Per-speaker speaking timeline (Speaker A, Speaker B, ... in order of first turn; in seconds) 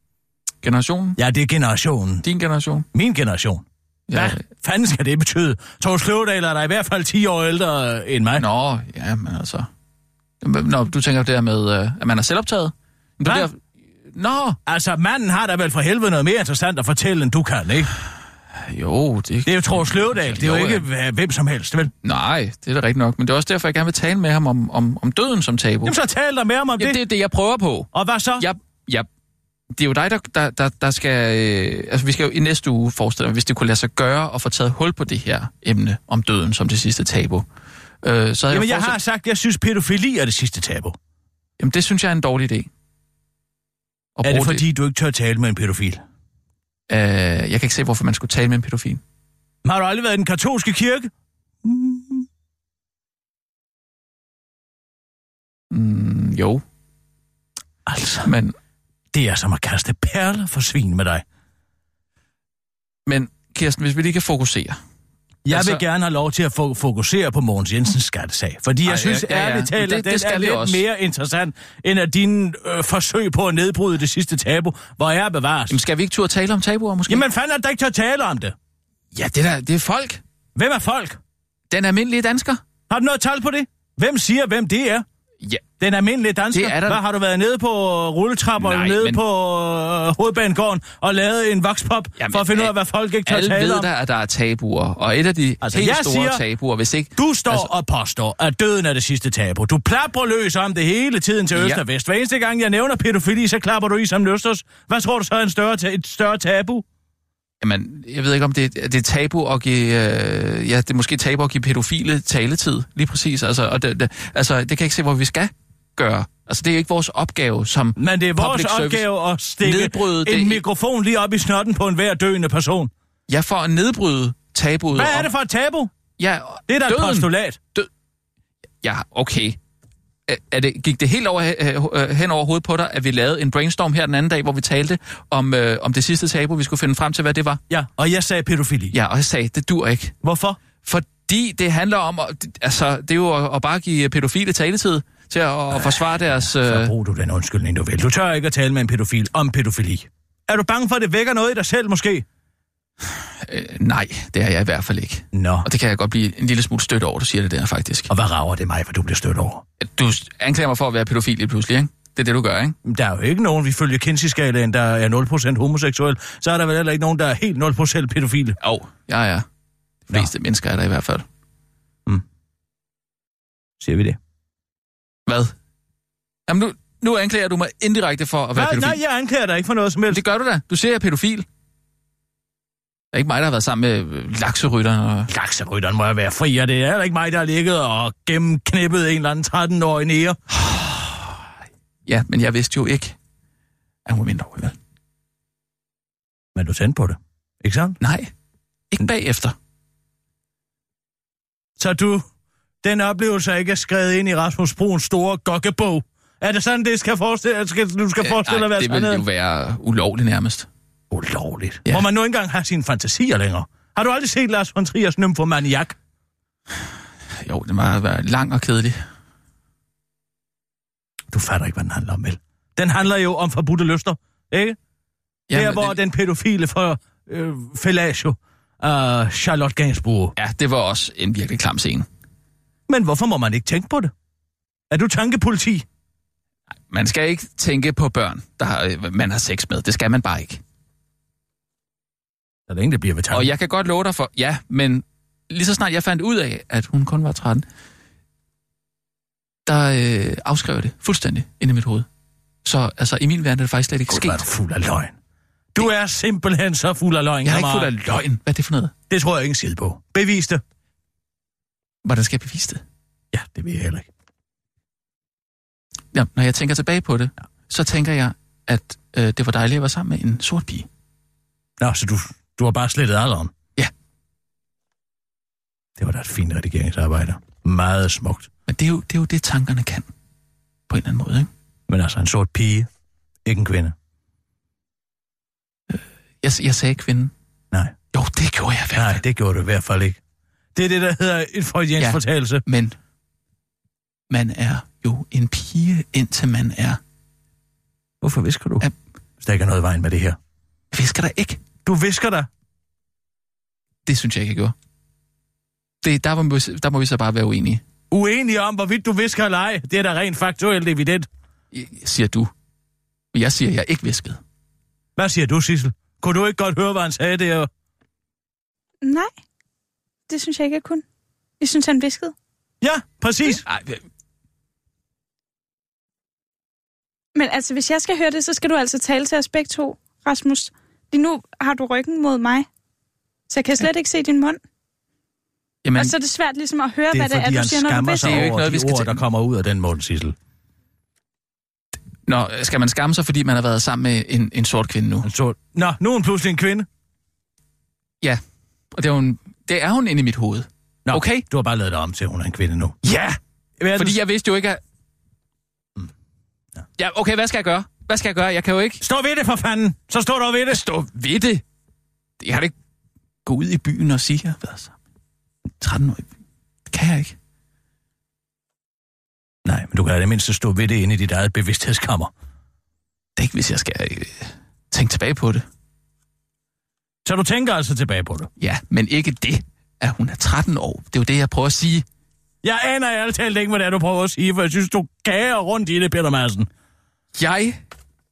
Speaker A: 0.6-1.2, 2.2-2.9, 4.1-4.4, 8.4-9.7, 10.4-14.6, 18.6-20.9, 22.0-25.9, 26.8-29.1, 29.8-37.4, 38.0-39.0, 41.6-42.7, 44.2-44.6, 46.9-49.0, 55.7-56.6, 58.2-58.5, 63.1-64.8, 65.5-65.8, 68.8-70.8, 75.7-77.2, 79.1-80.2, 81.7-82.6, 86.5-87.0, 88.6-89.2, 92.2-92.7, 93.3-97.7, 101.5-101.8, 107.6-119.0, 119.6-120.6, 123.3-125.3, 126.2-127.9, 128.8-129.6, 130.3-137.6, 138.9-140.1, 140.8-146.9, 153.4-158.1, 159.8-162.8, 168.6-169.4, 170.1-171.2, 175.3-175.5, 176.5-179.0, 180.1-181.4, 183.1-185.3, 190.5-191.2, 192.1-193.2, 194.1-194.7, 198.0-198.3, 198.9-199.6, 208.2-210.7, 217.4-219.0, 225.5-226.0, 230.4-232.1, 236.9-240.6, 243.3-247.6, 249.7-252.1, 252.6-254.4, 257.4-258.9, 262.0-262.8, 266.1-270.9, 278.7-280.1, 280.9-281.5, 285.9-287.3, 288.1-289.2, 292.0-293.0, 294.3-297.0, 300.9-301.6, 304.1-304.7, 306.0-307.8, 311.7-312.5, 313.3-314.4, 323.6-324.0, 335.8-336.1, 338.2-339.2, 342.2-345.3, 348.9-351.4, 353.0-353.4, 353.9-354.8, 357.0-359.0, 360.7-361.6, 362.4-362.7, 363.4-364.9, 365.8-366.3, 366.9-367.3, 373.4-375.6, 378.6-382.1, 387.4-387.8
Speaker B: 1.2-2.2, 2.9-8.4, 13.2-13.5, 14.7-17.9, 19.4-21.9, 25.8-27.0, 27.9-28.5, 38.5-41.0, 44.2-46.0, 49.6-51.1, 51.6-52.2, 57.9-58.3, 59.1-61.2, 65.4-75.8, 77.1-78.5, 80.6-81.2, 82.9-85.0, 85.8-93.9, 95.6-96.4, 97.2-106.8, 118.0-122.9, 124.9-125.9, 126.7-127.6, 137.7-138.9, 140.2-140.6, 145.7-152.2, 155.3-155.7, 158.1-159.6, 162.8-168.6, 173.8-174.2, 178.6-180.2, 185.3-190.4, 196.6-198.0, 201.8-202.2, 202.8-209.2, 211.1-215.9, 221.3-224.8, 225.5-230.3, 232.9-234.1, 234.9-235.8, 242.7-243.5, 254.1-255.1, 255.7-258.2, 259.1-260.6, 263.3-264.1, 271.8-273.5, 276.0-278.5, 281.9-282.9, 283.4-283.9, 288.9-290.2, 290.7-292.6, 298.2-298.9, 299.4-300.4, 301.8-302.5, 308.1-311.3, 315.2-317.7, 322.8-323.6, 337.1-340.3, 345.2-346.9, 351.1-353.0, 353.8-354.2, 359.0-360.8, 369.6-372.3, 377.2-378.5, 382.6-386.7
Speaker C: 319.0-319.3, 320.3-321.0, 321.6-322.3, 327.3-332.7, 333.5-334.6, 335.9-338.4